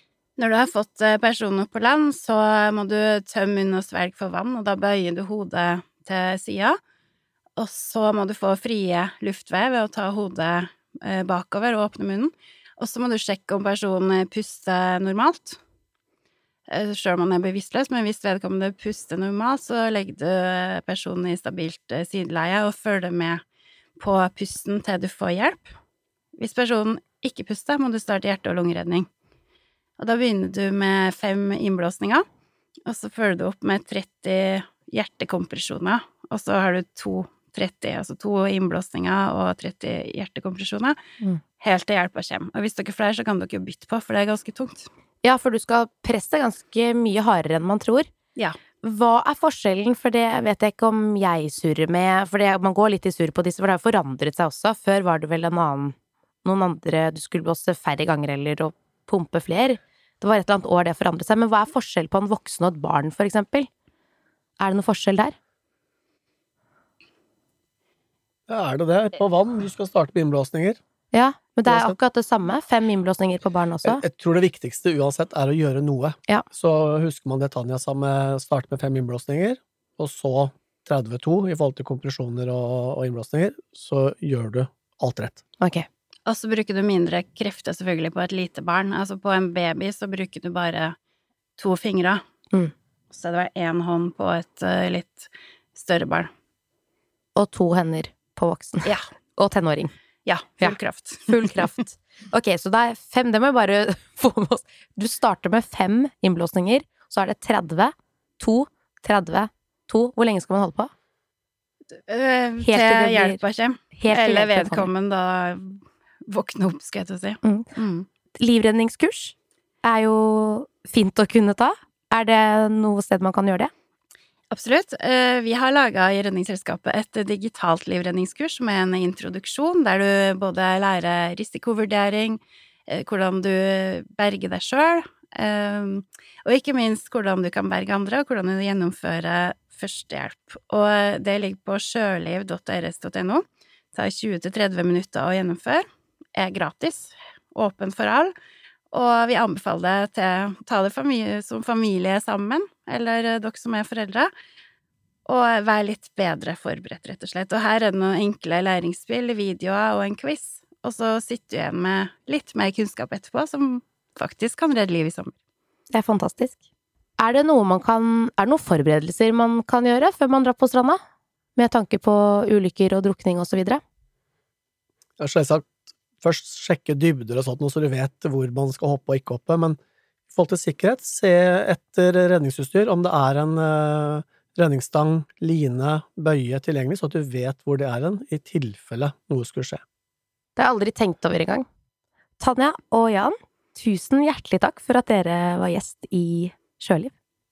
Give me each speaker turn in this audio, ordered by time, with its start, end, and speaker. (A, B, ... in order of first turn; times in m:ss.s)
0:00.4-0:06.8 A
0:07.6-0:15.6 A
0:16.7-0:23.4 A
0:24.0-0:25.7 A
0:26.4-0:29.1 A
0:30.0-0:32.2 A
0:32.8-0:41.0 A
0:41.6-0:44.9 A
0:45.2-0:48.1 B
0:48.8-1:03.7 B
1:04.6-1:05.3 B
1:08.5-1:10.8 C
1:11.1-1:14.0 B
1:11.6-1:12.0 C
1:13.8-1:25.4 C
1:25.6-1:25.8 B
1:26.2-1:30.9 A
1:31.6-1:32.2 A
1:33.1-1:36.3 A
1:37.4-1:39.9 B
1:40.2-1:41.7 A
1:41.3-1:50.9 B
1:51.9-1:58.1 A
1:52.6-1:53.4 B
1:54.0-1:54.9 B
1:58.4-2:03.7 B
2:04.5-2:28.3 A
2:28.9-2:34.3 A
2:35.2-2:45.3 A
2:45.9-2:46.6 B
2:47.2-2:51.0 B
2:51.6-2:53.8 B
2:55.2-2:59.8 C
3:00.3-3:09.8 C
3:10.6-3:11.6 B
3:12.4-3:17.1 B